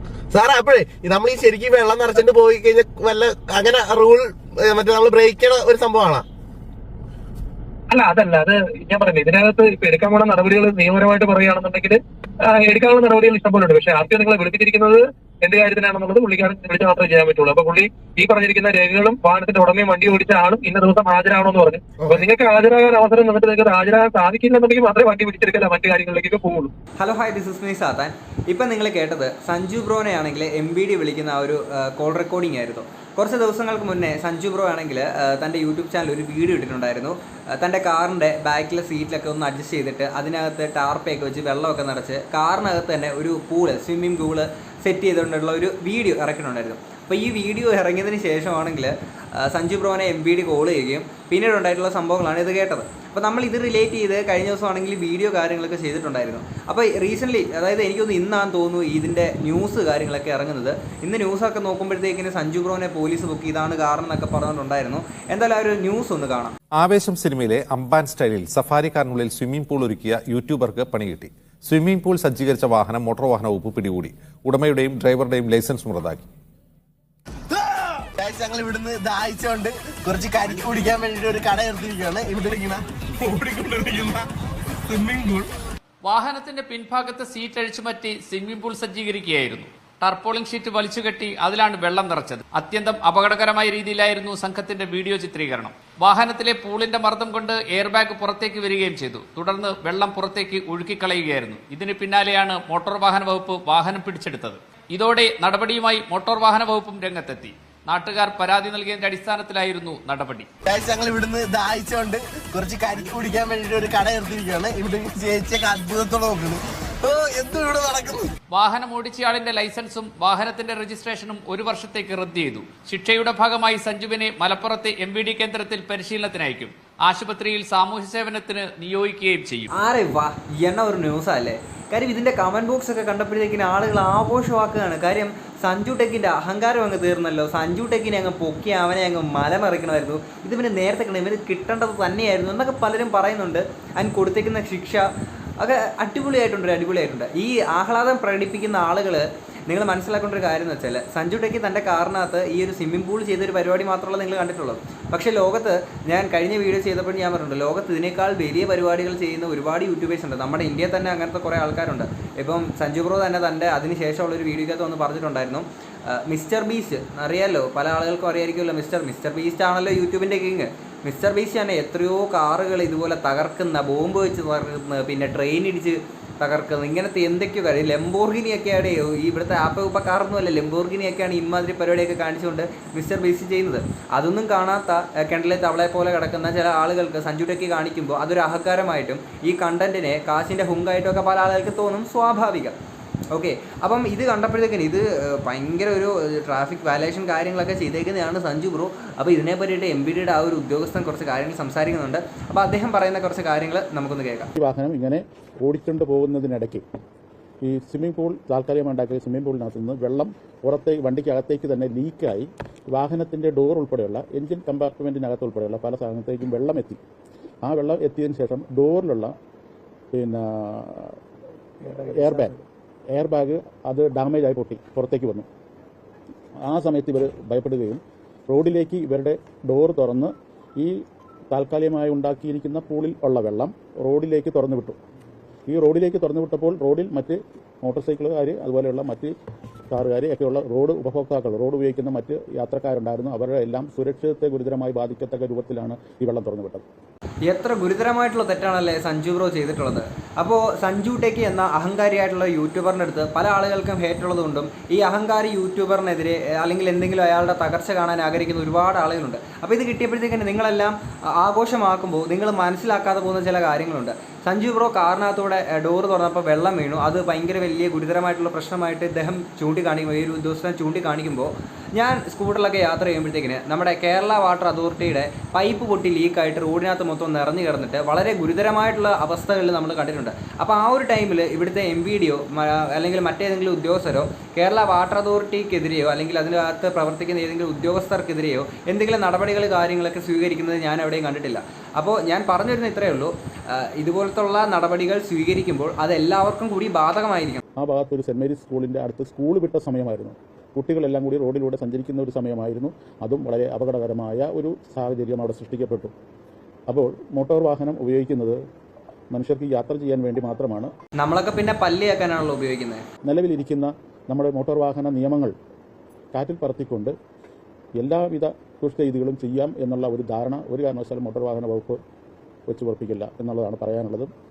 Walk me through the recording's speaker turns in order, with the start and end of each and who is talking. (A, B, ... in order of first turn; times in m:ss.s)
0:00.3-0:06.2 A
0:07.9-0:26.7 B
0:27.0-1:06.6 C
1:06.7-1:16.3 D
1:17.5-1:24.3 A
1:24.9-1:25.5 A
1:26.0-1:50.5 E
1:50.6-1:58.3 A
1:58.5-2:09.7 E
2:09.7-2:25.1 C
2:25.6-3:12.8 C
3:13.3-3:24.5 C
3:24.6-3:26.8 F
3:27.6-3:37.0 F
3:37.6-3:39.3 F
3:40.1-3:41.2 F
3:41.8-3:42.6 F
3:43.1-3:45.5 F
3:46.7-3:55.0 F
3:55.7-3:59.3 F
3:59.9-4:06.8 F
4:07.5-4:57.6 C
4:57.8-5:06.1 F
5:06.9-5:08.6 F
5:09.3-5:10.9 F
5:11.2-5:13.0 C
5:13.2-5:15.5 F
5:16.3-5:17.2 F
5:18.0-5:22.0 F
5:22.7-5:24.3 F